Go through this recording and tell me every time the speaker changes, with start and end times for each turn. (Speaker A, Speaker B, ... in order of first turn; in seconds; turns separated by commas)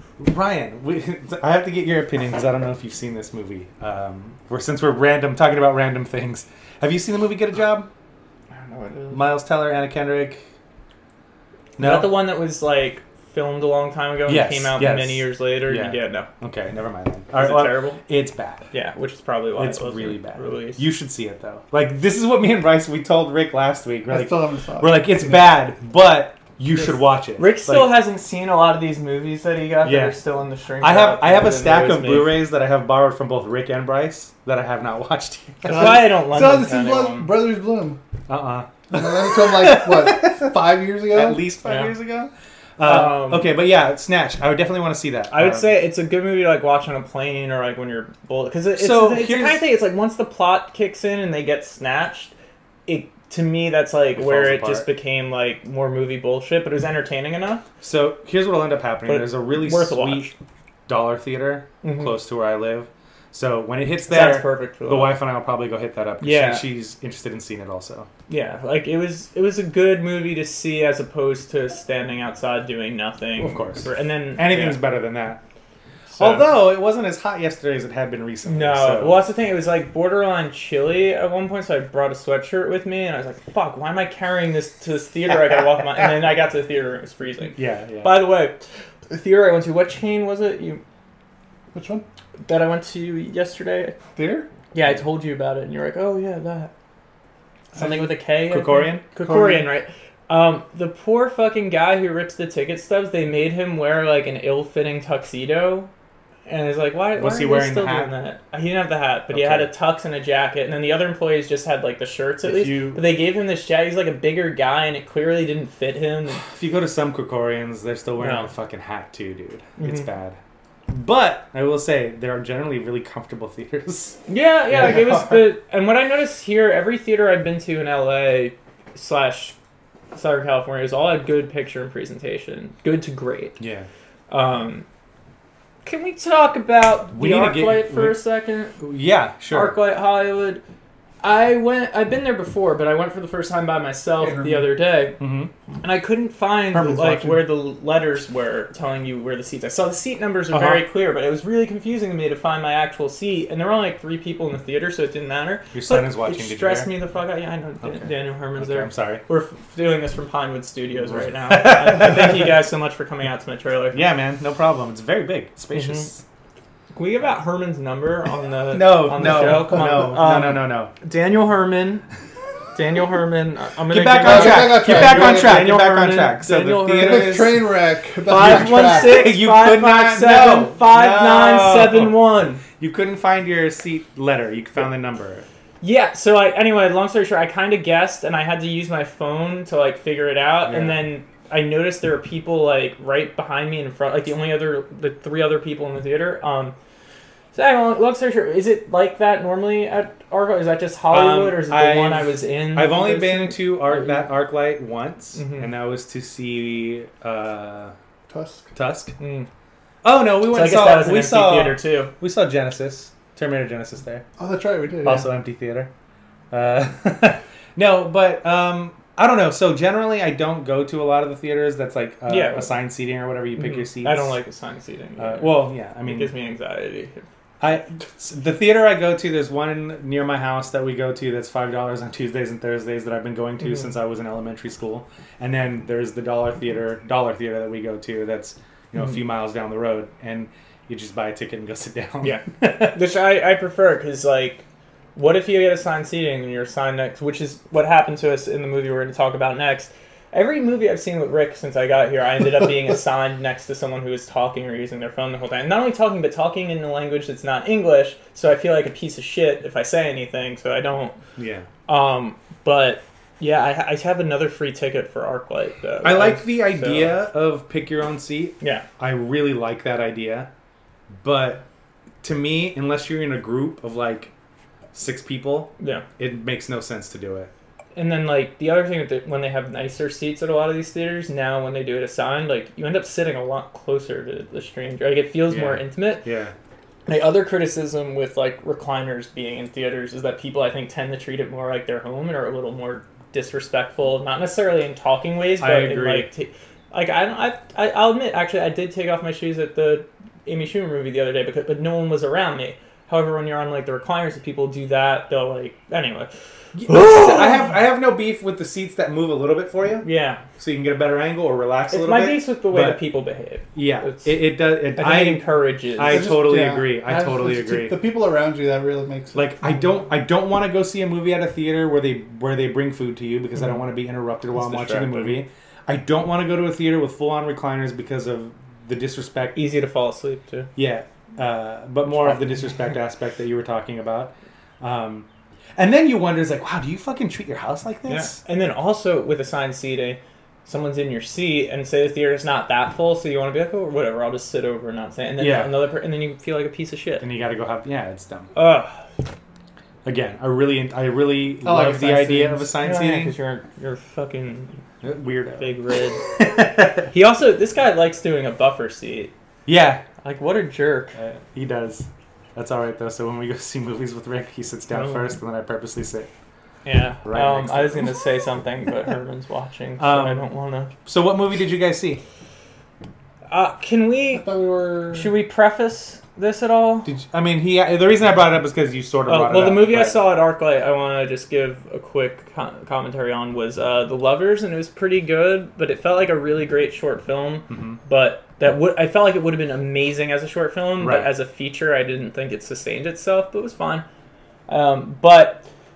Speaker A: 0.2-7.9, Speaker B: 8.5-9.2, Speaker A: 9.1-10.4, Speaker A: 11.8-12.2, Speaker B: 11.8-16.3, Speaker A: 14.3-18.7, Speaker B: 17.3-18.0, Speaker B: 18.7-20.8, Speaker A: 19.6-28.0, Speaker C: 24.1-25.5, Speaker B: 27.4-32.4, Speaker A: 29.8-30.2, Speaker A: 30.8-36.1, Speaker B: 35.6-37.3, Speaker C: 35.6-38.0, Speaker A: 38.3-40.6, Speaker C: 38.9-41.4, Speaker A: 41.1-45.7, Speaker B: 41.6-41.9, Speaker B: 42.8-43.5, Speaker B: 45.3-52.3, Speaker A: 48.8-49.6, Speaker B: 52.9-57.6, Speaker A: 54.1-54.9, Speaker A: 57.8-60.3, Speaker B: 59.0-60.3, Speaker A: 60.9-68.1, Speaker B: 61.8-62.1, Speaker B: 64.1-65.2, Speaker B: 66.2-66.6, Speaker B: 68.3-74.8, Speaker A: 73.4-75.4, Speaker B: 76.1-76.5, Speaker A: 76.2-79.2, Speaker B: 78.4-90.8, Speaker A: 87.5-88.2, Speaker C: 91.7-92.0, Speaker B: 92.4-94.0, Speaker C: 94.2-94.5, Speaker B: 94.7-96.7, Speaker B: 97.7-105.9, Speaker A: 98.5-99.0, Speaker C: 99.2-99.7, Speaker B: 106.5-116.4, Speaker A: 107.2-108.1, Speaker A: 109.3-109.7, Speaker A: 112.4-113.0, Speaker A: 116.5-120.4, Speaker B: 118.2-118.5, Speaker B: 119.8-120.1, Speaker A: 120.9-125.5, Speaker B: 124.3-129.5, Speaker B: 130.1-133.6, Speaker A: 133.6-133.9, Speaker B: 134.3-134.8, Speaker B: 135.8-138.8, Speaker A: 137.1-138.2, Speaker A: 138.8-139.8, Speaker B: 139.5-140.6, Speaker B: 141.2-145.2, Speaker C: 144.2-144.7, Speaker A: 145.2-145.5, Speaker B: 145.8-164.0, Speaker A: 146.7-147.4, Speaker A: 150.5-150.8, Speaker A: 155.7-156.9, Speaker A: 157.8-159.2, Speaker A: 161.0-162.5, Speaker A: 163.9-166.2, Speaker B: 165.7-166.1, Speaker B: 166.9-172.0, Speaker A: 168.7-170.9, Speaker C: 169.4-169.9, Speaker B: 172.7-177.5, Speaker A: 173.9-177.7, Speaker C: 174.2-175.6, Speaker C: 176.9-179.2, Speaker B: 178.3-182.6, Speaker A: 178.3-182.2, Speaker A: 182.8-185.4, Speaker B: 185.8-196.7, Speaker A: 190.6-191.0, Speaker B: 197.5-204.3, Speaker A: 201.1-207.9, Speaker B: 205.3-205.7, Speaker C: 208.3-208.7, Speaker A: 208.7-209.1, Speaker B: 209.2-209.5, Speaker A: 210.0-214.2, Speaker B: 210.4-212.1, Speaker C: 214.4-215.3, Speaker A: 215.0-215.9, Speaker A: 216.5-224.4, Speaker B: 222.3-222.7, Speaker B: 223.6-227.2, Speaker A: 225.2-226.3, Speaker A: 227.6-243.0, Speaker B: 242.2-261.2, Speaker A: 261.4-261.7, Speaker B: 261.9-267.1, Speaker A: 266.0-270.5, Speaker A: 271.2-271.6, Speaker A: 272.2-274.3, Speaker A: 274.9-277.5, Speaker B: 275.8-276.0, Speaker B: 277.9-286.2, Speaker A: 285.5-286.5, Speaker B: 287.1-306.3, Speaker A: 295.6-296.3, Speaker A: 306.7-310.1, Speaker B: 306.9-307.7, Speaker B: 310.0-310.4, Speaker A: 310.6-313.0, Speaker B: 311.9-314.4, Speaker A: 313.7-318.0, Speaker B: 314.9-316.3, Speaker C: 316.0-319.6, Speaker A: 319.3-329.6, Speaker B: 324.5-325.4, Speaker B: 329.5-330.7, Speaker A: 330.8-338.4, Speaker B: 332.1-332.7, Speaker B: 338.1-347.2, Speaker A: 345.4-345.8, Speaker A: 347.2-348.5, Speaker B: 348.5-349.0, Speaker A: 350.0-353.4, Speaker C: 351.6-352.7, Speaker B: 352.8-354.8, Speaker A: 355.0-357.1, Speaker B: 355.6-356.2, Speaker B: 357.1-359.3, Speaker A: 359.6-360.0, Speaker B: 360.2-361.2, Speaker A: 361.1-366.3, Speaker B: 364.9-365.2, Speaker B: 366.8-370.9, Speaker A: 367.2-368.1, Speaker A: 370.0-370.5, Speaker A: 371.0-372.2, Speaker B: 373.5-374.4, Speaker C: 374.3-375.3, Speaker B: 375.1-377.1, Speaker A: 377.0-380.2, Speaker B: 379.3-394.0, Speaker A: 387.7-388.0, Speaker A: 391.0-391.3, Speaker B: 394.7-395.6